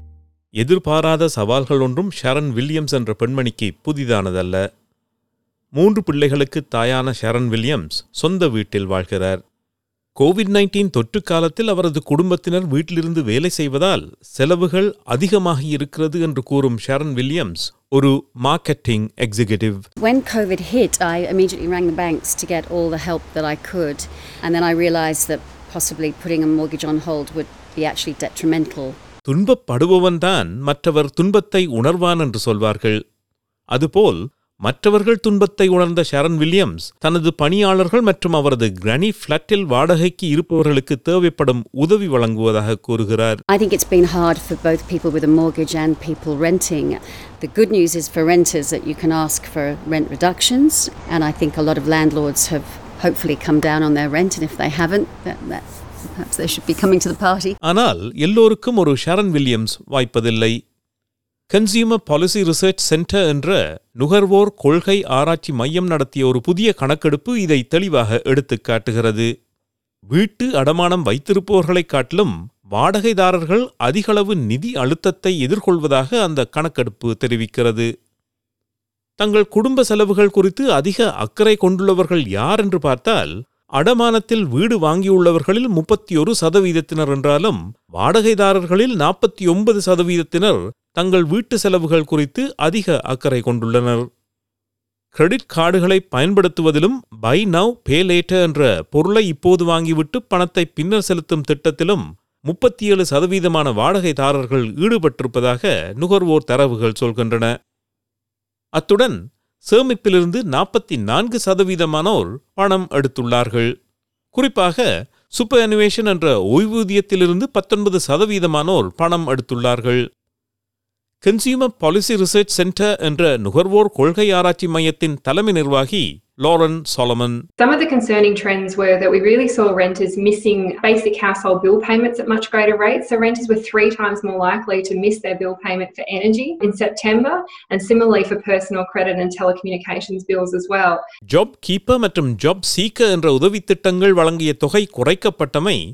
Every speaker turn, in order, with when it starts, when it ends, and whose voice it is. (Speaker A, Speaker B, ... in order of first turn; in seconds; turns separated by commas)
Speaker A: 0.6-4.6, Speaker A: 5.8-9.4, Speaker A: 10.2-19.8, Speaker B: 20.0-29.0, Speaker A: 29.2-33.0, Speaker A: 33.7-43.4, Speaker B: 43.5-57.6, Speaker A: 57.6-60.5, Speaker A: 61.5-69.3, Speaker A: 70.1-77.9, Speaker A: 79.2-94.0, Speaker A: 95.1-107.5, Speaker A: 108.7-109.2, Speaker A: 109.7-113.7, Speaker A: 114.3-114.8, Speaker A: 115.3-120.0, Speaker A: 121.2-127.3, Speaker C: 127.6-141.0, Speaker A: 141.3-145.8